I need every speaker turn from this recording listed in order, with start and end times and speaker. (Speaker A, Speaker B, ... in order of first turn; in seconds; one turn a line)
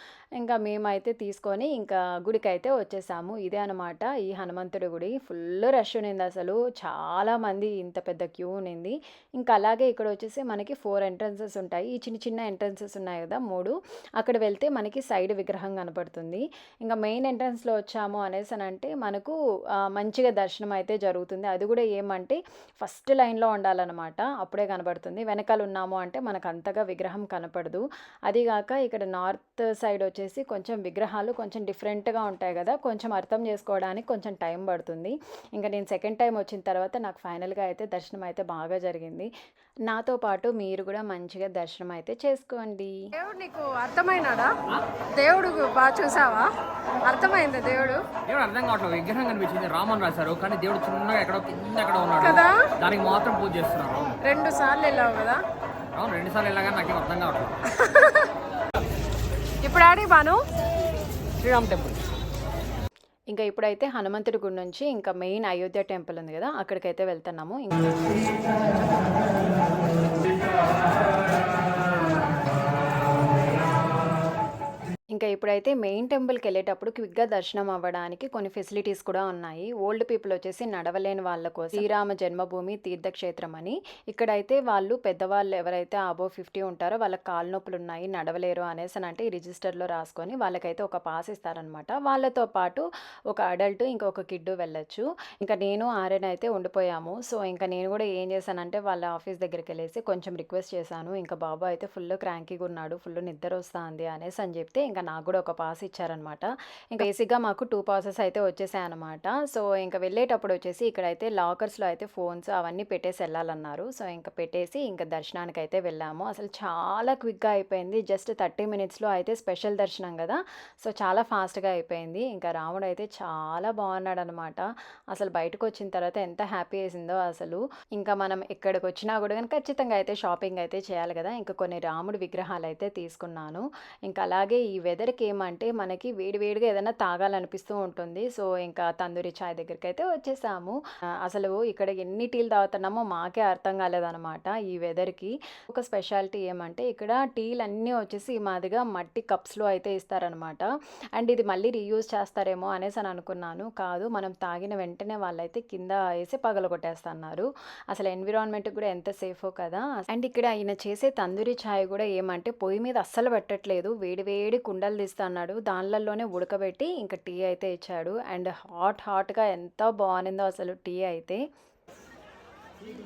Speaker A: 0.4-39.3
Speaker A: 39.9-42.9
Speaker B: 43.1-44.6
Speaker B: 45.1-48.0
Speaker C: 48.3-54.2
Speaker B: 52.2-52.7
Speaker B: 54.2-55.4
Speaker C: 55.9-57.6
Speaker B: 57.7-58.3
Speaker B: 59.6-60.4
Speaker C: 61.4-62.0
Speaker A: 63.3-69.0
Speaker A: 75.1-171.4